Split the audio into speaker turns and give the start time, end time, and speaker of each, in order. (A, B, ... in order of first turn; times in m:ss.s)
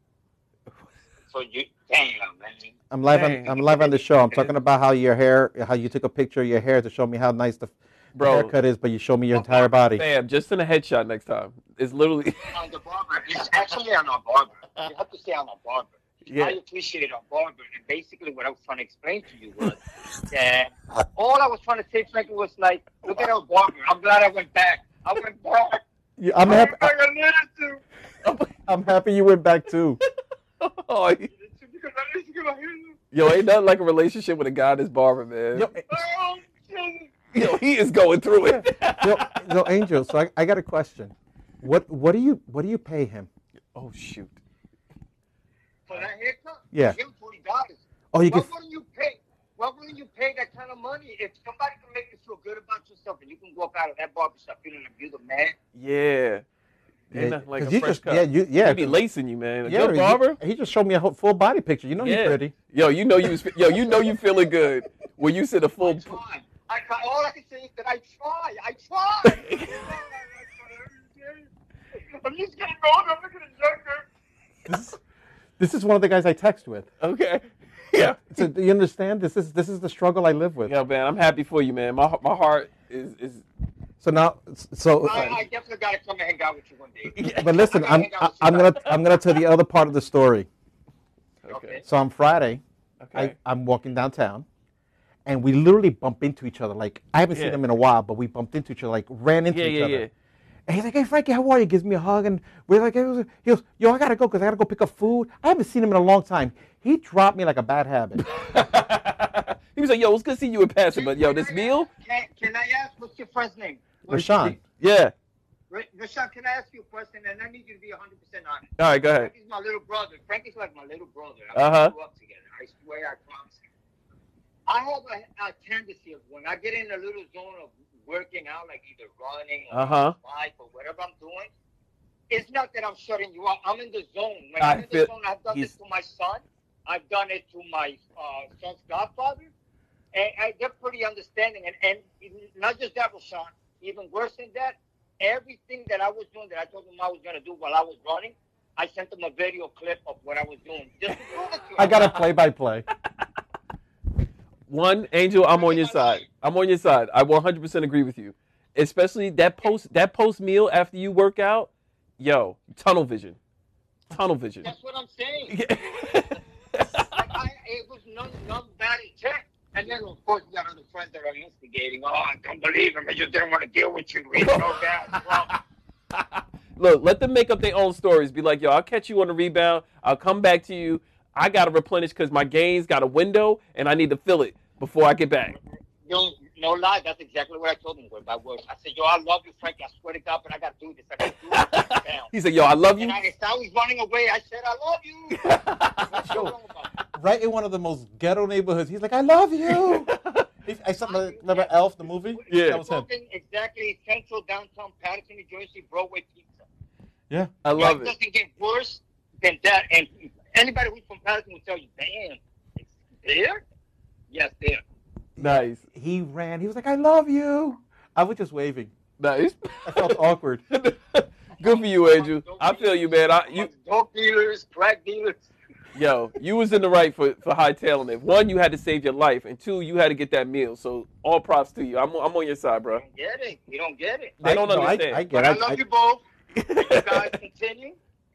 0:01.3-0:02.7 A
0:02.9-0:10.0 B
0:03.1-0:03.7 C
0:08.2-0:08.5 C
0:09.9-0:12.5 C
0:12.5-0:19.8 A
0:16.3-0:16.6 C
0:20.3-0:25.8 A
0:26.2-0:26.9 B
0:26.4-0:27.8 A
0:28.2-0:28.6 C
0:28.7-0:30.0 B
0:30.6-0:31.3 C
0:31.3-0:33.0 A
0:33.1-0:35.7 C
0:35.5-0:35.9 B
0:35.9-0:37.2 A
0:37.3-0:39.7 C
0:38.4-0:43.3 B
0:43.8-0:44.4 C
0:45.9-0:55.6 A
0:46.7-0:47.0 B
0:48.1-0:48.5 B
0:55.8-0:56.4 C
0:57.1-0:59.0 B
0:57.1-1:00.4 C
0:59.6-1:02.5 B
1:02.0-1:06.2 C
1:05.8-1:11.5 A
1:09.2-1:09.9 C
1:12.1-1:14.1 A
1:14.7-1:15.0 B
1:15.6-1:16.9 B
1:17.0-1:18.5 C
1:18.3-1:20.8 B
1:20.6-1:23.4 C
1:24.0-1:25.5 B
1:25.0-1:28.9 A
1:27.1-1:27.7 C
1:27.3-1:30.5 B
1:31.4-1:31.8 C
1:31.5-1:31.8 A
1:31.8-1:32.6 B
1:33.0-1:33.4 C
1:33.1-1:34.5 B
1:35.3-1:40.1 B
1:37.3-1:37.6 C
1:39.5-1:40.1 C
1:40.7-1:48.2 B
1:48.2-1:51.9 C
1:50.9-1:54.4 A
1:54.1-1:54.6 B
1:54.1-1:55.1 C
1:55.7-2:03.7 A
1:58.8-1:59.3 C
2:01.5-2:01.9 C
2:04.7-2:11.5 A
2:09.7-2:10.2 C
2:12.3-2:19.5 A
2:14.6-2:15.7 C
2:20.1-2:32.1 A
2:31.8-2:32.9 B
2:31.8-2:32.1 C
2:34.7-2:43.4 C
2:35.5-2:36.3 A
2:44.1-2:44.7 C
2:44.6-2:45.6 A
2:45.5-2:47.2 C
2:47.1-2:55.6 A
2:54.4-2:55.4 C
2:56.1-3:05.6 C
3:05.6-3:12.3 A
3:11.2-3:13.2 C
3:13.0-3:16.9 A
3:15.3-3:16.3 C
3:16.2-3:16.6 B
3:17.1-3:20.1 B
3:19.7-3:20.5 C
3:20.6-3:23.1 B
3:21.0-3:26.7 A
3:22.5-3:22.8 C
3:27.6-3:28.1 C
3:27.8-3:33.6 A
3:34.3-3:34.8 A
3:35.4-3:38.9 B
3:35.4-3:35.8 C
3:39.2-3:43.7 C
3:39.9-3:40.6 B
3:41.5-3:45.5 A
3:45.9-3:53.0 C
3:52.9-3:54.4 A
3:54.4-3:55.2 C
3:54.4-3:55.8 B
3:55.3-3:56.2 A
3:56.5-3:57.4 C
3:56.8-3:58.0 A